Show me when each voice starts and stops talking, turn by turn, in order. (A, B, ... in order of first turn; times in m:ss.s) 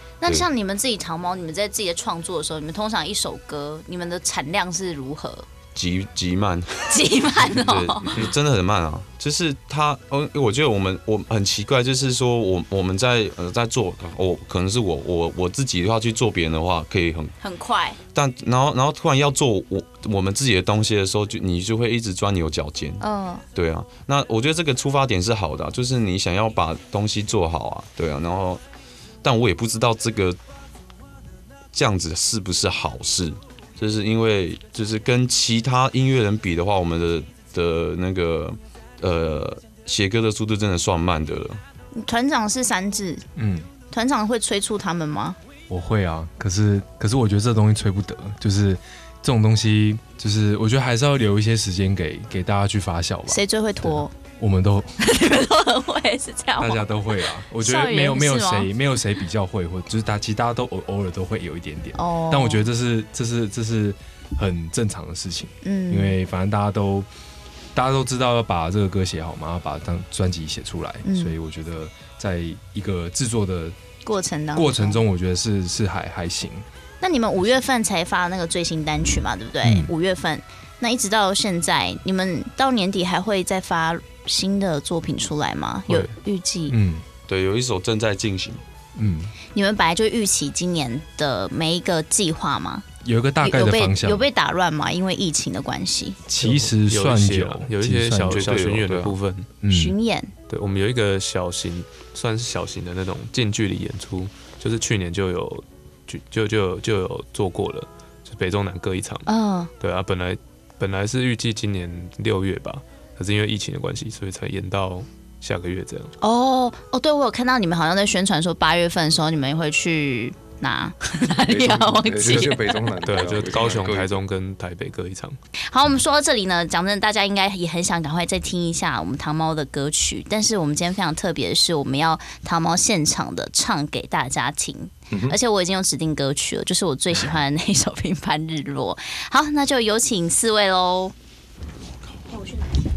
0:00.2-0:05.5 A
0:05.8-0:17.3 B
0:06.9-0:08.2 A
0:17.4-0:18.0 A
0:18.1-0:23.0 B
0:23.0-0:23.4 A
0:23.6-0:28.6 B
0:29.2-0:30.4 B
0:31.7-0:41.6 B
0:41.9-0:43.2 A
0:43.4-0:43.7 C
0:43.9-0:45.4 A
0:45.7-0:54.9 C
0:53.3-0:54.1 A
0:55.0-0:58.7 A
0:56.6-1:07.1 C
1:02.0-1:02.7 A
1:05.6-1:06.2 A
1:07.8-1:13.8 C
1:11.0-1:11.4 A
1:14.0-1:15.0 A
1:14.6-1:16.6 C
1:17.0-1:26.8 A
1:19.6-1:19.9 C
1:26.7-1:27.0 C
1:27.3-1:28.6 B
1:29.0-1:29.3 C
1:29.5-1:32.9 A
1:33.0-1:34.3 C
1:33.4-1:36.2 A
1:36.3-1:38.6 C
1:36.4-1:39.5 D
1:38.3-1:39.2 B
1:39.6-1:40.0 C
1:39.7-1:40.3 A
1:40.5-1:49.3 D
1:49.3-1:49.7 A
1:49.8-1:56.1 D
1:56.2-2:02.7 A
2:01.5-2:04.2 E
2:03.0-2:05.4 D
2:05.7-2:21.1 A
2:15.1-2:15.4 E